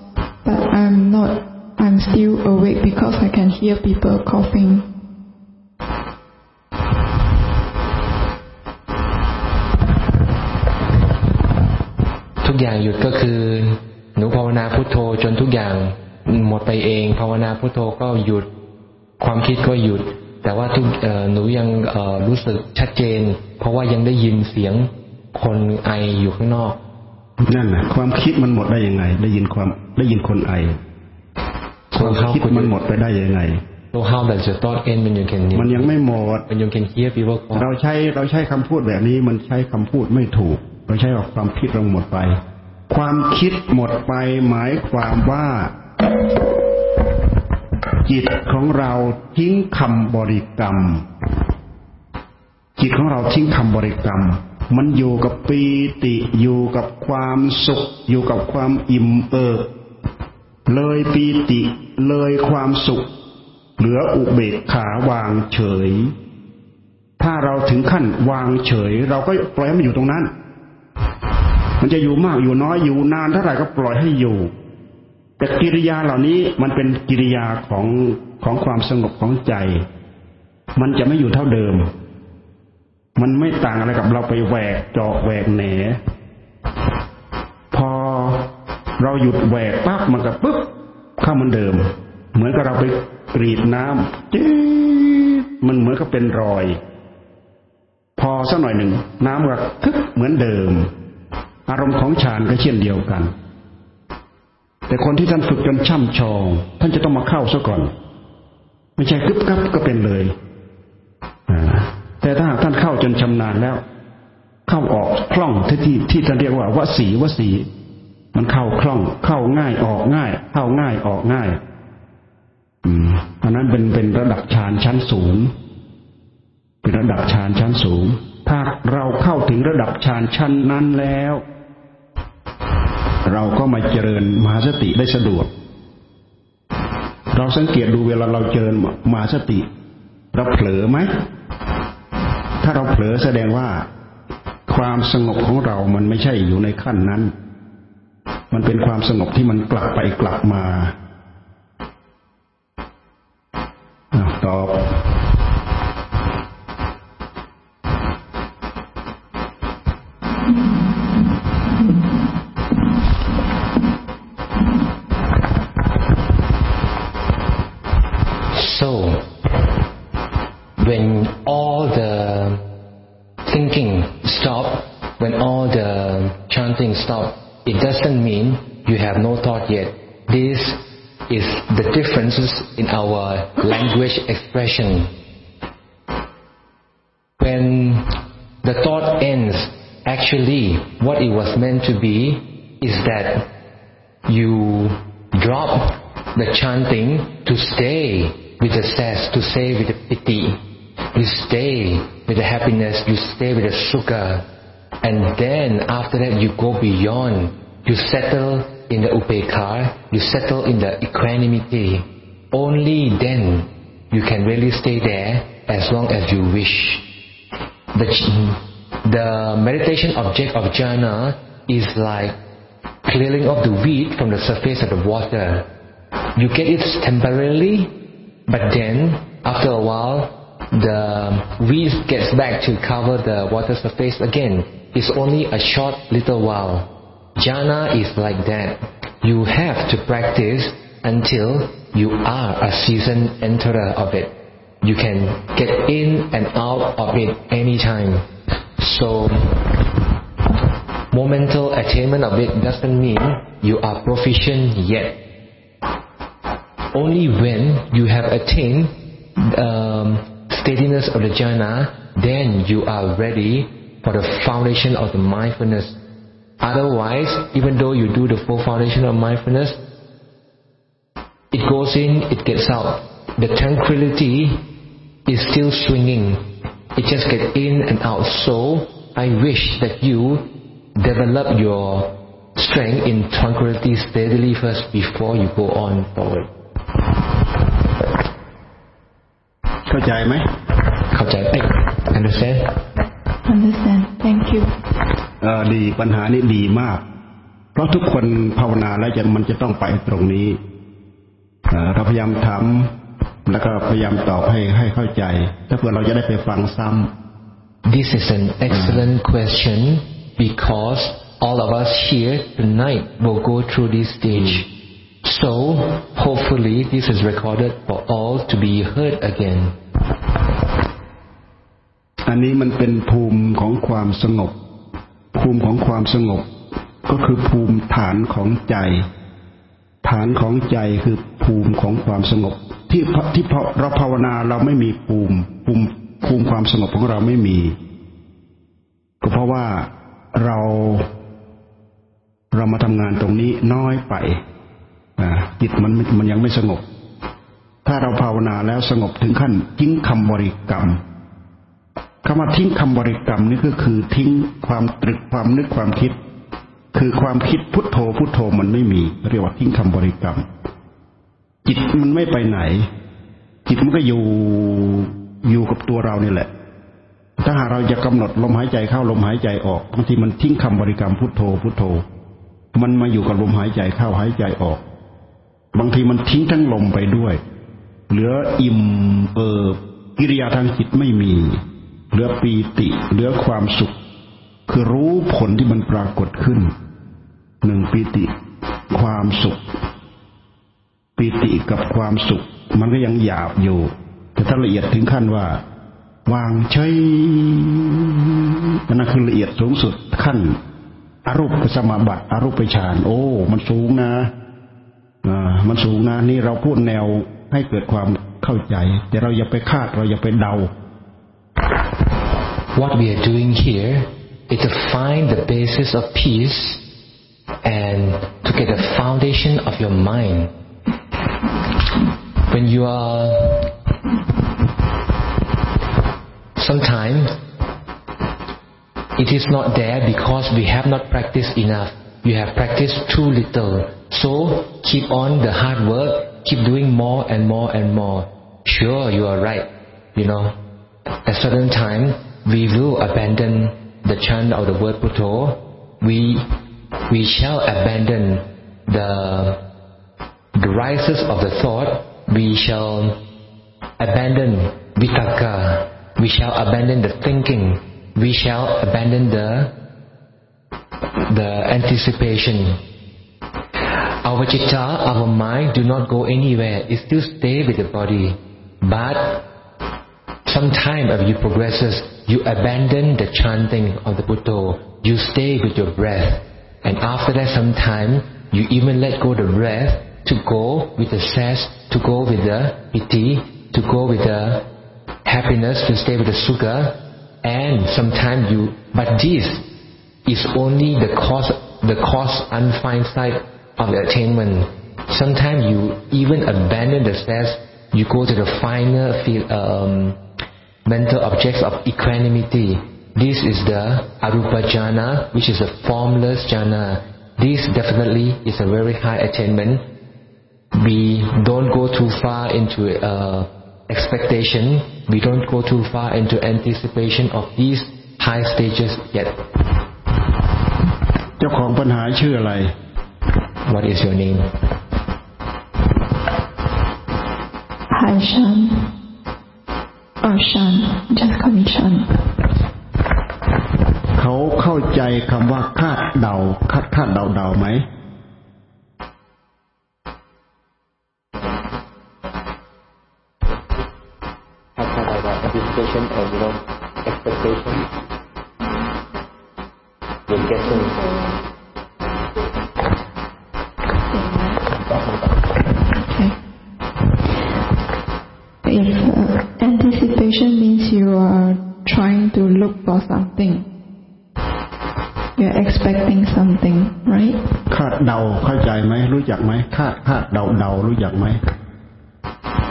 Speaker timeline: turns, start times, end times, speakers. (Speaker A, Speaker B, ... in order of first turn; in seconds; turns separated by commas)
Speaker A: 0.4-4.9, Speaker B: 12.4-18.5, Speaker B: 19.2-26.8, Speaker C: 27.4-30.8, Speaker B: 31.9-32.7, Speaker C: 31.9-33.6, Speaker B: 33.9-35.9, Speaker C: 35.5-36.5, Speaker B: 36.5-37.7, Speaker C: 37.6-45.8, Speaker C: 48.0-51.1, Speaker C: 52.8-59.7, Speaker C: 60.7-63.1, Speaker C: 63.8-66.1, Speaker C: 67.2-70.3, Speaker C: 71.8-74.5, Speaker C: 75.4-79.9, Speaker C: 80.8-81.9, Speaker C: 83.2-86.0, Speaker C: 87.7-96.8, Speaker C: 98.2-100.9, Speaker C: 101.7-103.3, Speaker C: 104.9-107.9, Speaker C: 109.0-110.4, Speaker C: 111.5-113.8, Speaker C: 114.7-117.7, Speaker C: 118.3-121.6, Speaker C: 122.8-125.5, Speaker C: 126.8-131.4, Speaker C: 133.2-135.5, Speaker C: 137.3-139.7, Speaker C: 140.3-141.3, Speaker C: 142.6-143.9, Speaker C: 144.7-147.3, Speaker C: 148.5-150.9, Speaker C: 154.1-155.1, Speaker B: 168.5-169.3, Speaker B: 170.8-172.6, Speaker B: 173.4-185.1, Speaker B: 187.4-193.5, Speaker B: 194.3-200.6, Speaker B: 201.1-204.5, Speaker B: 205.0-217.1, Speaker B: 217.9-222.4, Speaker B: 223.1-225.7, Speaker B: 226.3-227.9, Speaker B: 228.5-249.8, Speaker B: 251.1-255.2, Speaker B: 256.9-266.0, Speaker B: 266.6-269.8, Speaker B: 271.5-274.6, Speaker B: 275.3-276.4, Speaker B: 277.0-286.5, Speaker C: 289.9-290.5, Speaker B: 291.1-292.8, Speaker A: 293.4-294.7, Speaker C: 295.4-297.0, Speaker C: 297.8-300.6, Speaker C: 301.7-302.9, Speaker C: 303.5-307.1, Speaker B: 307.9-314.7, Speaker B: 315.2-319.8, Speaker C: 322.3-324.6, Speaker C: 325.3-326.5, Speaker C: 327.1-329.1, Speaker C: 330.0-337.8, Speaker C: 339.2-341.1, Speaker C: 342.5-344.4, Speaker C: 345.2-346.9, Speaker C: 347.9-351.0, Speaker C: 352.2-356.2, Speaker C: 356.9-360.5, Speaker C: 361.6-362.9, Speaker C: 363.7-366.5, Speaker C: 367.4-372.1, Speaker C: 372.8-374.8, Speaker C: 375.7-377.4, Speaker C: 378.1-383.9, Speaker C: 384.7-386.7, Speaker C: 387.6-388.3, Speaker C: 388.9-389.6, Speaker C: 391.2-395.6, Speaker C: 396.3-400.6, Speaker C: 401.2-404.3, Speaker C: 405.2-410.7, Speaker B: 412.8-416.8, Speaker B: 417.6-420.5, Speaker B: 422.5-423.7, Speaker B: 426.6-427.4, Speaker B: 429.2-440.6, Speaker B: 441.2-446.5, Speaker B: 447.1-449.6, Speaker B: 450.6-453.2, Speaker B: 454.0-459.7, Speaker B: 461.2-462.8, Speaker B: 464.2-469.5, Speaker B: 470.5-484.7, Speaker B: 485.3-489.7, Speaker B: 490.3-500.2, Speaker B: 500.9-509.9, Speaker B: 510.7-519.4, Speaker C: 521.4-522.8, Speaker B: 523.7-524.6, Speaker A: 527.9-528.9, Speaker A: 530.2-532.3, Speaker C: 534.2-537.9, Speaker B: 544.8-547.9, Speaker B: 550.3-551.2, Speaker A: 554.1-554.5, Speaker A: 555.9-556.4, Speaker A: 558.6-563.7, Speaker A: 565.4-567.4, Speaker C: 567.7-571.4